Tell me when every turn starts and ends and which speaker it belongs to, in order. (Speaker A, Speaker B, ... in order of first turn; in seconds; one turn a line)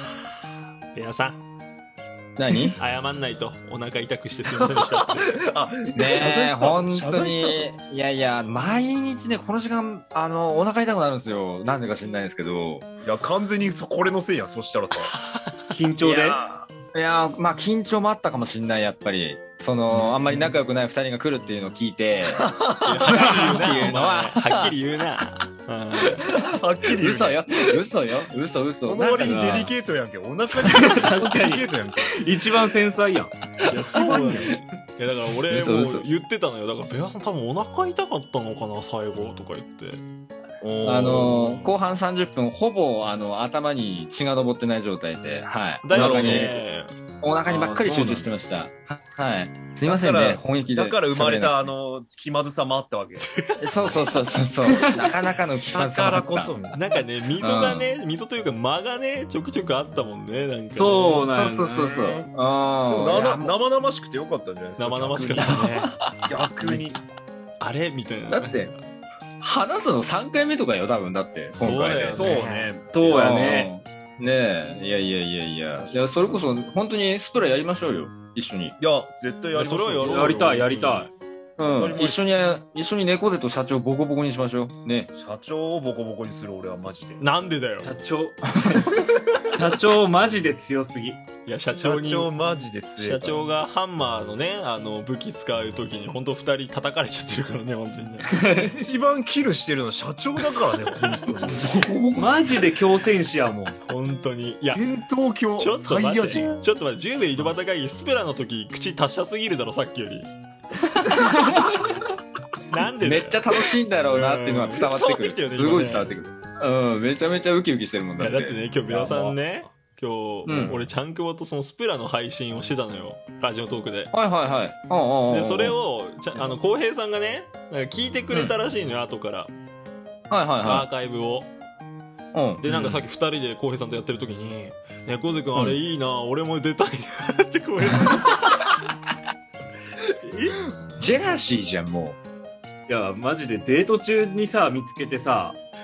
Speaker A: 0.9-1.4
Speaker B: 2.4-2.8
Speaker A: 2.7-5.4
Speaker C: 4.4-7.7
Speaker B: 5.9-12.8
Speaker C: 13.0-15.1
Speaker D: 15.7-16.4
Speaker B: 16.0-22.5
Speaker C: 22.3-23.6
Speaker A: 22.8-26.2
Speaker B: 23.0-24.7
Speaker C: 26.1-27.5
Speaker B: 27.0-29.7
Speaker C: 28.8-32.2
Speaker D: 29.2-29.7
Speaker D: 30.7-33.3
Speaker A: 33.7-40.0
Speaker B: 33.8-34.5
Speaker C: 33.9-34.6
Speaker B: 35.5-36.0
Speaker C: 40.6-41.7
Speaker B: 40.8-46.6
Speaker A: 45.8-46.9
Speaker C: 45.9-46.5
Speaker B: 47.2-51.7
Speaker D: 47.5-48.3
Speaker C: 49.9-53.3
Speaker A: 53.3-54.2
Speaker B: 53.6-56.6
Speaker C: 55.7-56.8
Speaker A: 56.7-61.3
Speaker B: 57.4-57.9
Speaker D: 60.7-62.3
Speaker B: 61.3-63.5
Speaker C: 62.9-65.7
Speaker A: 64.8-66.0
Speaker B: 65.4-66.2
Speaker C: 66.2-67.0
Speaker A: 67.6-68.8
Speaker B: 68.3-68.7
Speaker B: 69.4-72.2
Speaker A: 71.5-72.7
Speaker C: 72.1-73.3
Speaker D: 72.9-73.7
Speaker B: 73.1-78.8
Speaker C: 75.8-76.4
Speaker C: 78.8-80.5
Speaker A: 79.5-81.1
Speaker D: 80.0-81.1
Speaker B: 81.6-85.1
Speaker C: 81.6-82.2
Speaker C: 85.1-87.2
Speaker A: 87.2-87.9
Speaker D: 87.8-89.0
Speaker D: 89.5-91.2
Speaker A: 91.5-92.3
Speaker C: 91.8-93.4
Speaker A: 93.0-98.3
Speaker D: 98.3-98.8
Speaker C: 98.8-102.0
Speaker B: 101.7-102.2
Speaker D: 102.1-103.8
Speaker A: 103.8-104.8
Speaker C: 104.7-106.5
Speaker A: 105.6-110.3
Speaker B: 111.2-111.8
Speaker A: 112.7-116.2
Speaker B: 113.0-119.3
Speaker A: 118.2-124.1
Speaker C: 118.9-119.3
Speaker B: 120.4-120.8
Speaker C: 120.5-120.8
Speaker B: 124.1-125.8
Speaker A: 125.3-129.5
Speaker B: 130.3-130.9
Speaker A: 130.6-131.5
Speaker B: 132.3-133.0
Speaker A: 132.6-138.7
Speaker A: 140.2-140.6
Speaker B: 141.0-142.2
Speaker D: 142.9-145.6